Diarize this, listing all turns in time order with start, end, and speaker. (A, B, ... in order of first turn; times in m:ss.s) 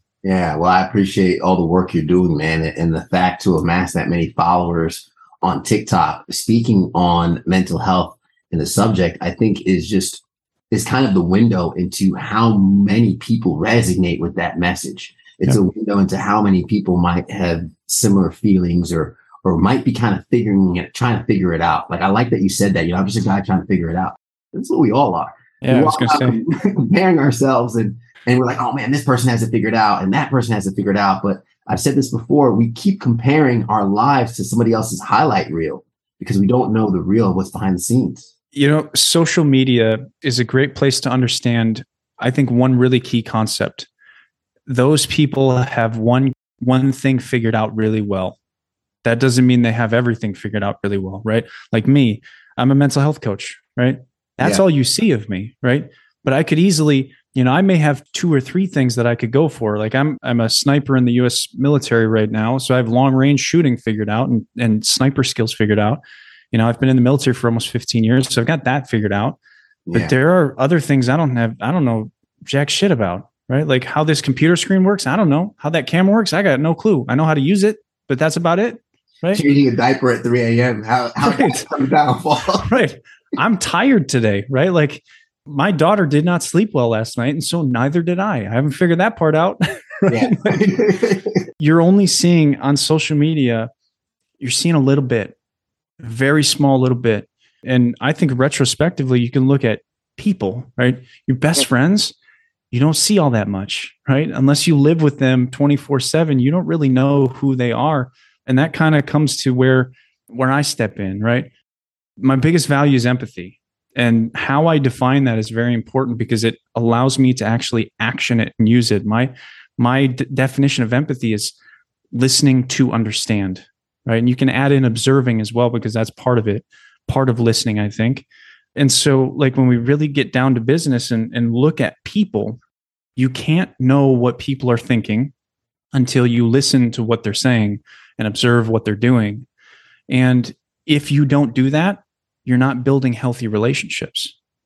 0:00.2-0:38.3 A
0:25.6-0:26.4 B
0:38.5-0:43.9 B
0:44.7-0:48.4 B
0:49.0-1:06.0 B
1:06.5-1:09.4 B
1:09.9-1:10.1 A
1:09.9-1:19.4 B
1:19.3-1:22.7 A
1:21.2-1:21.7 B
1:22.6-1:30.8 B
1:30.1-1:31.4 A
1:31.6-1:33.7 B
1:34.4-1:35.4 B
1:36.0-1:42.2 B
1:42.7-1:51.5 B
1:52.2-2:01.6 B
2:02.1-2:08.2 B
2:08.8-2:12.6 B
2:13.2-2:15.3 B
2:15.9-2:19.5 B
2:20.1-2:24.4 B